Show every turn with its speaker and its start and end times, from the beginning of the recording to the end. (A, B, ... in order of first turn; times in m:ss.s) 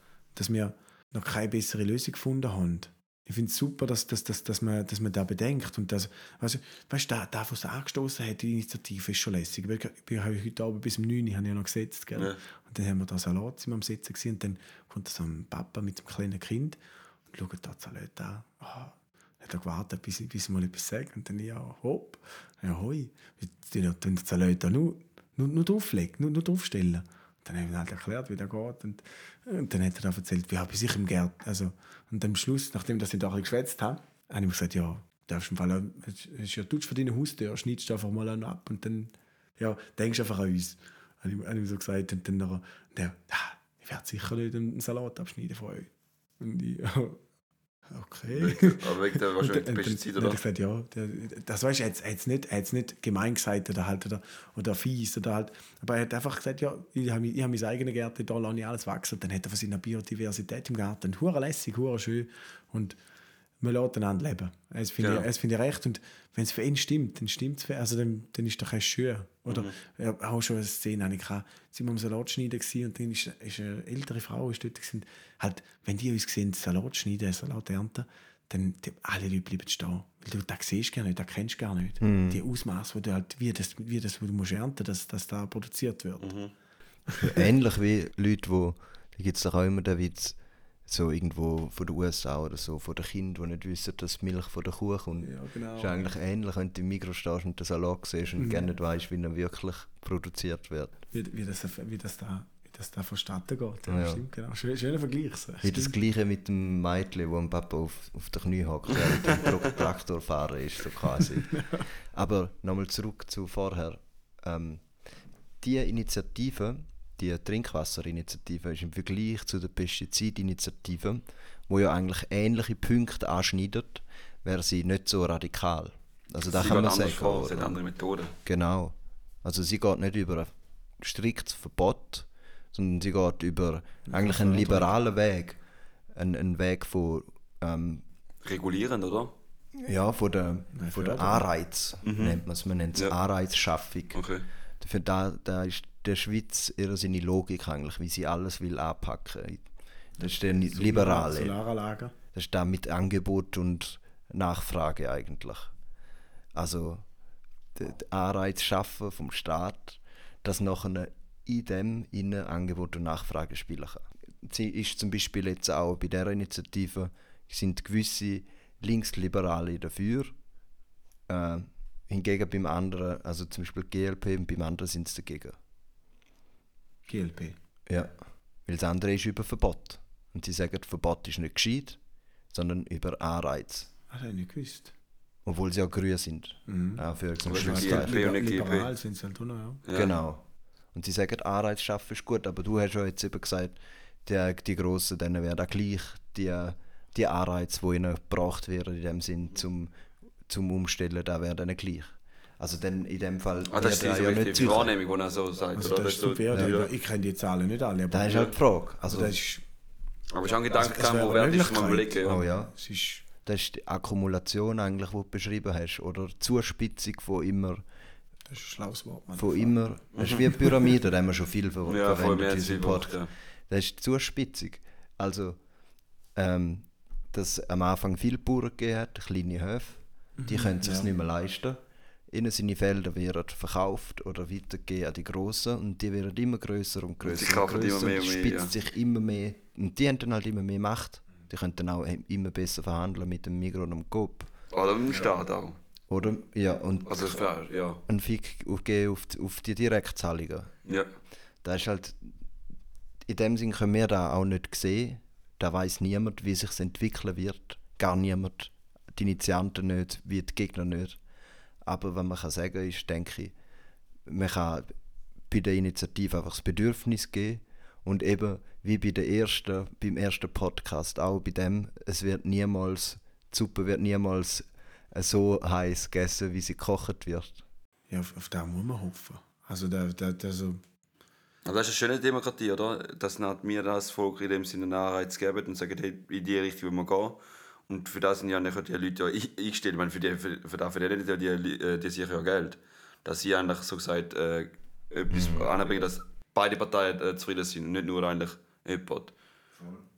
0:00.4-0:16.8 A
0:17.3-0:45.9 A
0:46.4-0:47.2 A
0:47.9-1:03.0 A
0:48.3-0:50.4 B
1:03.6-1:26.4 A
1:05.0-1:05.3 B
1:09.5-1:09.8 B
1:22.0-1:22.4 C
1:26.2-1:26.5 B
1:27.1-1:27.5 A
1:27.2-1:41.0 C
1:35.2-1:36.0 A
1:38.4-1:38.7 A
1:41.1-1:46.0 A
1:43.9-1:44.2 C
1:45.6-1:51.6 C
1:49.4-1:49.8 B
1:51.4-1:51.8 A
1:52.1-1:55.0 C
1:55.6-2:07.8 C
2:06.5-2:08.4 B
2:08.4-2:15.6 C
2:14.1-2:14.9 A
2:16.1-2:18.0 C
2:18.4-2:19.3 B
2:19.7-2:24.2 C
2:20.8-2:21.5 A
2:22.0-2:22.4 B
2:24.1-2:24.5 B
2:24.8-2:29.7 C
2:30.2-2:31.6 C
2:30.6-2:32.1 A
2:32.3-2:35.7 C
2:36.6-2:37.0 C
2:37.8-2:50.4 C
2:51.3-2:55.6 C
2:57.1-2:57.6 A
2:58.7-3:02.0 C
3:02.5-3:03.9 C
3:04.1-3:04.9 A
3:05.4-3:08.2 C
3:06.7-3:09.8 A
3:07.5-3:08.9 B
3:09.8-3:10.1 B
3:09.9-3:19.9 C
3:20.5-3:24.9 C
3:23.7-3:26.9 B
3:25.8-3:29.6 A
3:28.1-3:29.4 C
3:30.3-3:32.4 B
3:30.5-3:33.2 A
3:32.2-3:32.7 C
3:33.4-3:37.8 C
3:38.5-3:39.8 A
3:39.4-3:45.6 C
3:40.1-3:40.6 B
3:41.9-3:43.3 B
3:46.4-4:04.5 C
3:50.4-3:51.1 A
3:57.2-3:58.7 B
4:04.7-4:05.8 B
4:06.1-4:07.4 C
4:07.1-4:08.0 B
4:08.1-4:10.7 C
4:11.6-4:12.4 C
4:13.3-4:21.2 C
4:21.8-4:23.5 C
4:24.3-4:24.9 C
4:25.5-4:37.6 C
4:38.1-4:40.8 A
4:41.6-4:59.3 B
4:55.3-4:55.7 C